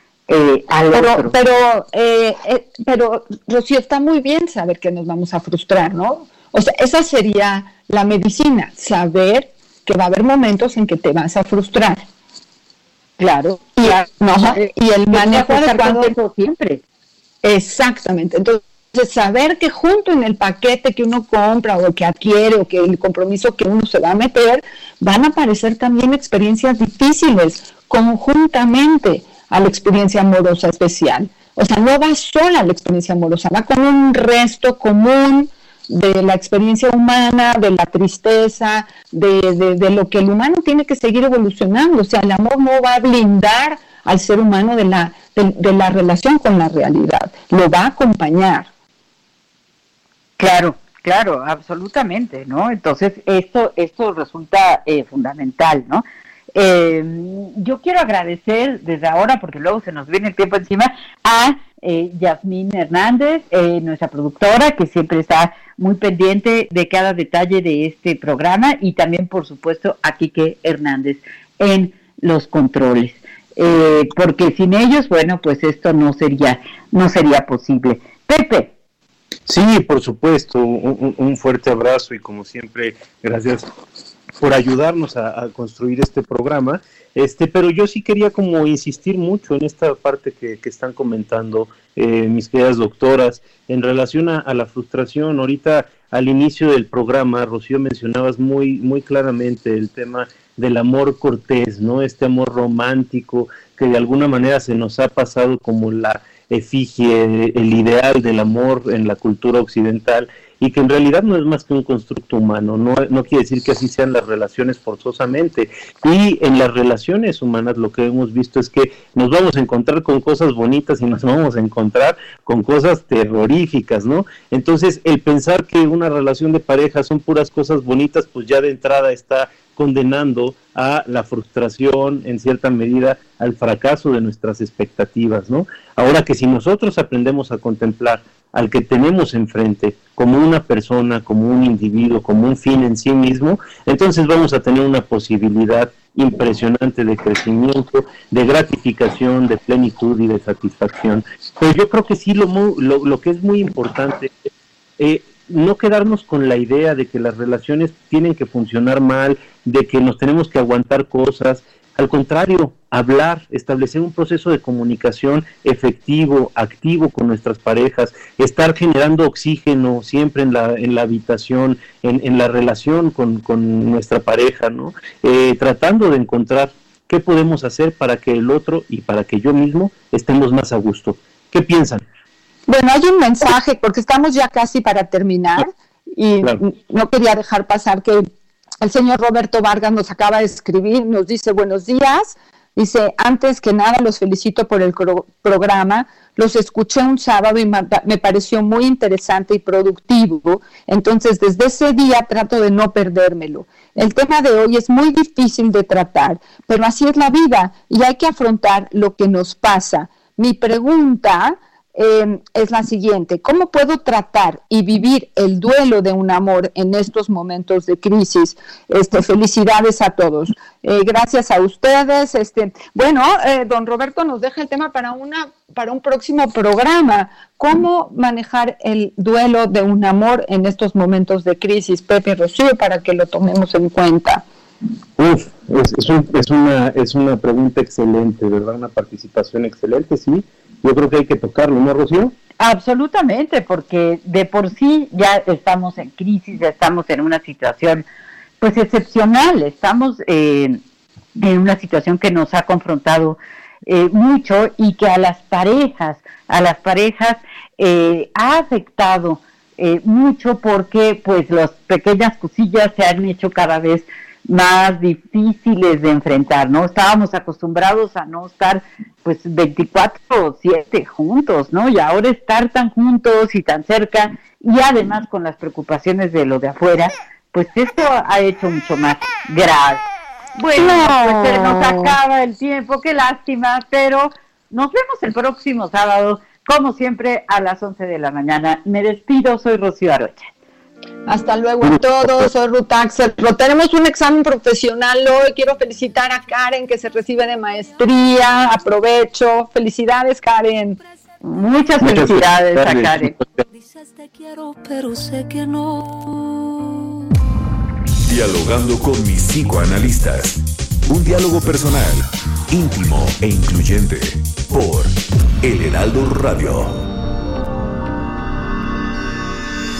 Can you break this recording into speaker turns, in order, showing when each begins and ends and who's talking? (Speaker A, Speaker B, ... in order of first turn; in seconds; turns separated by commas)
Speaker A: 0.3-1.3, Speaker B: 0.9-12.0, Speaker A: 13.2-13.9, Speaker B: 13.8-16.1, Speaker A: 15.1-16.8, Speaker B: 17.4-48.7, Speaker A: 50.4-78.7, Speaker C: 79.5-83.7, Speaker C: 84.4-182.0, Speaker B: 182.7-188.3, Speaker B: 188.8-234.4, Speaker C: 235.2-242.3, Speaker A: 242.6-248.0, Speaker A: 248.6-250.8, Speaker A: 251.3-280.0, Speaker A: 280.6-290.5, Speaker B: 280.8-282.1, Speaker B: 291.3-301.0, Speaker C: 291.8-292.5, Speaker A: 301.4-303.3, Speaker C: 302.0-303.4, Speaker D: 303.6-307.3, Speaker E: 308.2-317.0